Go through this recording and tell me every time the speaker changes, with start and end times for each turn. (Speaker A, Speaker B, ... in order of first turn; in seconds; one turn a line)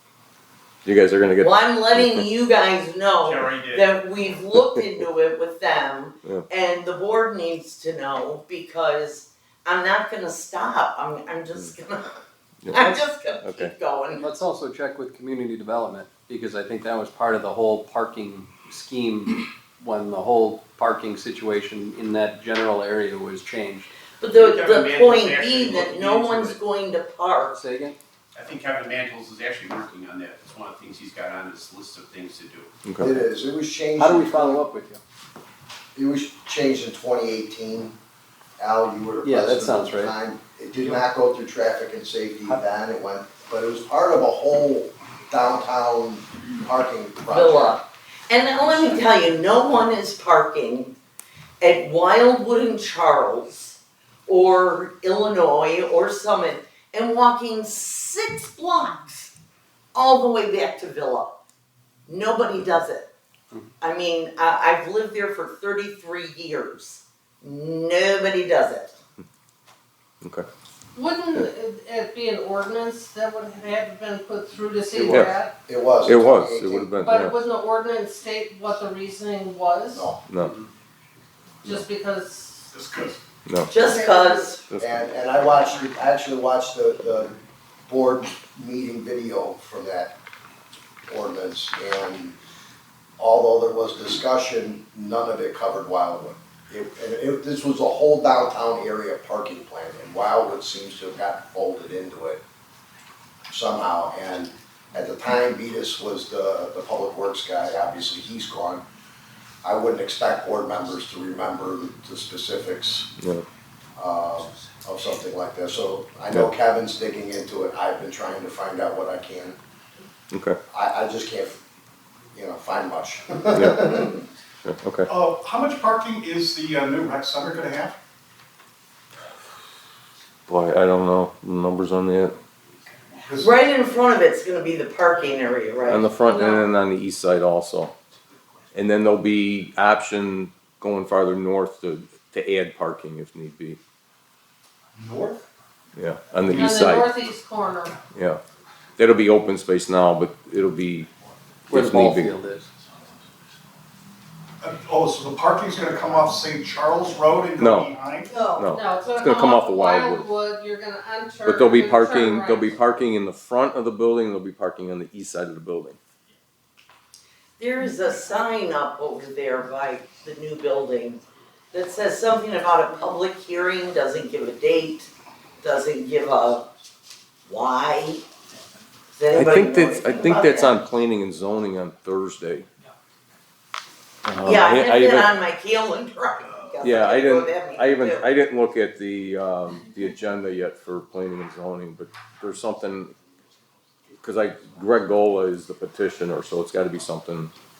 Speaker A: 0.8-2.2
Speaker B: 1.4-14.2
Speaker C: 3.2-3.9
Speaker A: 12.6-13.7
Speaker D: 14.2-23.9
Speaker B: 24.2-27.6
Speaker C: 24.4-26.6
Speaker D: 27.5-28.0
Speaker C: 28.4-32.7
Speaker A: 32.9-33.2
Speaker E: 33.0-34.6
Speaker D: 34.0-35.0
Speaker E: 36.0-38.0
Speaker E: 38.6-47.8
Speaker D: 39.2-40.1
Speaker B: 47.3-51.0
Speaker B: 51.6-59.3
Speaker B: 59.9-61.3
Speaker B: 62.1-63.1
Speaker B: 63.8-69.0
Speaker F: 71.0-75.5
Speaker E: 74.9-77.0
Speaker A: 75.1-75.3
Speaker A: 76.0-77.3
Speaker F: 77.0-80.1
Speaker E: 79.9-80.2
Speaker A: 80.3-80.5
Speaker F: 81.7-82.7
Speaker G: 82.8-83.2
Speaker A: 83.5-83.7
Speaker B: 83.7-84.6
Speaker E: 83.8-87.4
Speaker A: 84.7-85.1
Speaker E: 87.9-90.1
Speaker E: 91.1-92.4
Speaker E: 93.2-102.4
Speaker E: 103.5-108.8
Speaker E: 109.6-113.1
Speaker A: 113.2-113.5
Speaker E: 114.0-119.6
Speaker A: 120.3-120.6
Speaker E: 120.7-121.6
Speaker E: 122.3-124.2
Speaker A: 123.5-123.9
Speaker A: 124.6-125.1
Speaker G: 125.1-128.0
Speaker A: 130.5-132.4
Speaker G: 133.2-133.5
Speaker B: 133.4-136.1
Speaker A: 135.9-137.9
Speaker F: 136.3-136.6
Speaker A: 138.7-143.8
Speaker G: 145.0-145.4
Speaker A: 146.0-147.2
Speaker F: 146.6-148.0
Speaker A: 148.1-148.4
Speaker A: 149.0-151.1
Speaker D: 151.7-152.7
Speaker A: 151.7-152.3
Speaker G: 154.6-158.3
Speaker A: 157.6-157.9
Speaker F: 158.3-162.7
Speaker A: 158.6-160.3
Speaker A: 161.4-166.0
Speaker B: 167.6-175.1
Speaker B: 175.6-176.7
Speaker B: 177.5-178.2
Speaker B: 179.2-180.8
Speaker A: 179.3-182.7
Speaker A: 184.2-185.3
Speaker B: 184.4-188.3
Speaker A: 186.8-193.2
Speaker A: 194.2-197.5